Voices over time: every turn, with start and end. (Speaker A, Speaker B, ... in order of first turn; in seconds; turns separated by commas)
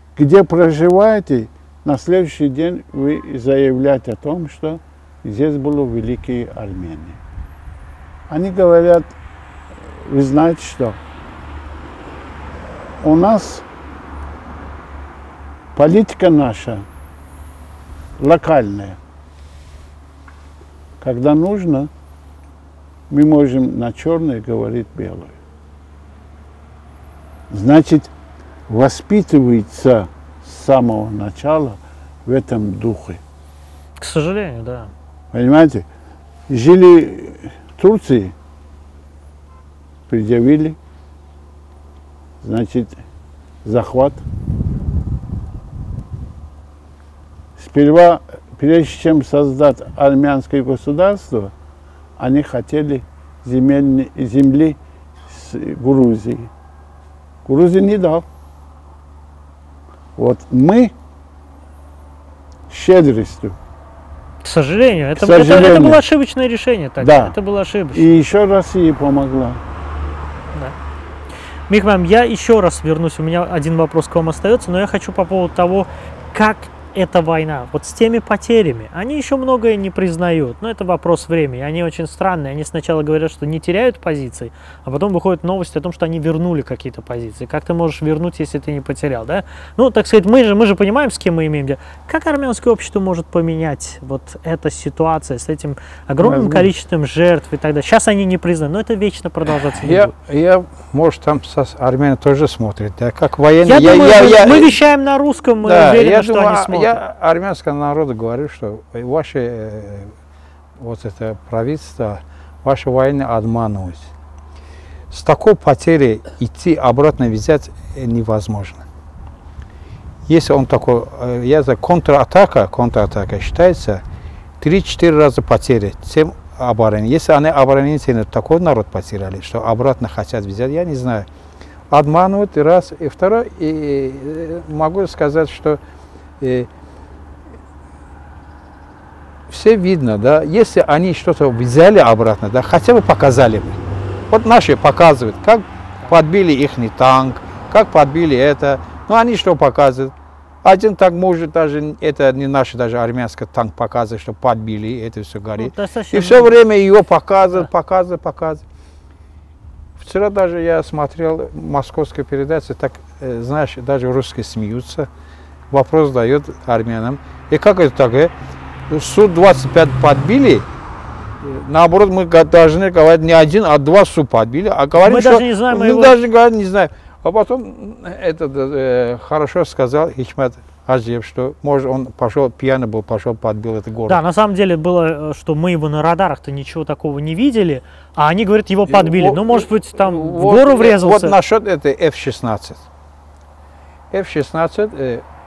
Speaker A: 0.2-7.2, Speaker A: 8.3-9.1, Speaker A: 9.9-11.0, Speaker A: 13.0-13.7, Speaker A: 15.8-16.9, Speaker A: 18.2-19.0, Speaker A: 21.0-21.9, Speaker A: 23.1-25.4, Speaker A: 27.5-28.1, Speaker A: 28.7-33.2, Speaker B: 34.0-34.9, Speaker A: 35.3-35.9, Speaker A: 36.5-38.3, Speaker A: 40.1-40.8, Speaker A: 42.4-43.0, Speaker A: 43.6-44.2, Speaker A: 47.6-51.5, Speaker A: 52.2-56.5, Speaker A: 57.5-58.3, Speaker A: 60.2-60.9, Speaker A: 62.7-63.6, Speaker B: 64.4-68.1, Speaker A: 65.2-66.0, Speaker A: 67.0-67.4, Speaker A: 67.9-69.6, Speaker B: 71.7-100.1, Speaker C: 96.2-96.7, Speaker C: 99.7-104.7, Speaker B: 103.6-107.0, Speaker C: 105.6-110.1, Speaker C: 110.8-114.1, Speaker C: 115.1-118.8, Speaker C: 120.3-124.0, Speaker C: 124.6-131.3, Speaker C: 131.9-135.8, Speaker C: 136.4-136.7, Speaker C: 139.5-158.6, Speaker B: 155.6-156.6, Speaker C: 160.0-165.1, Speaker C: 165.7-168.3, Speaker C: 168.9-170.7, Speaker C: 171.4-184.2, Speaker B: 175.0-176.2, Speaker B: 184.1-191.4, Speaker C: 188.9-192.8, Speaker C: 194.1-195.2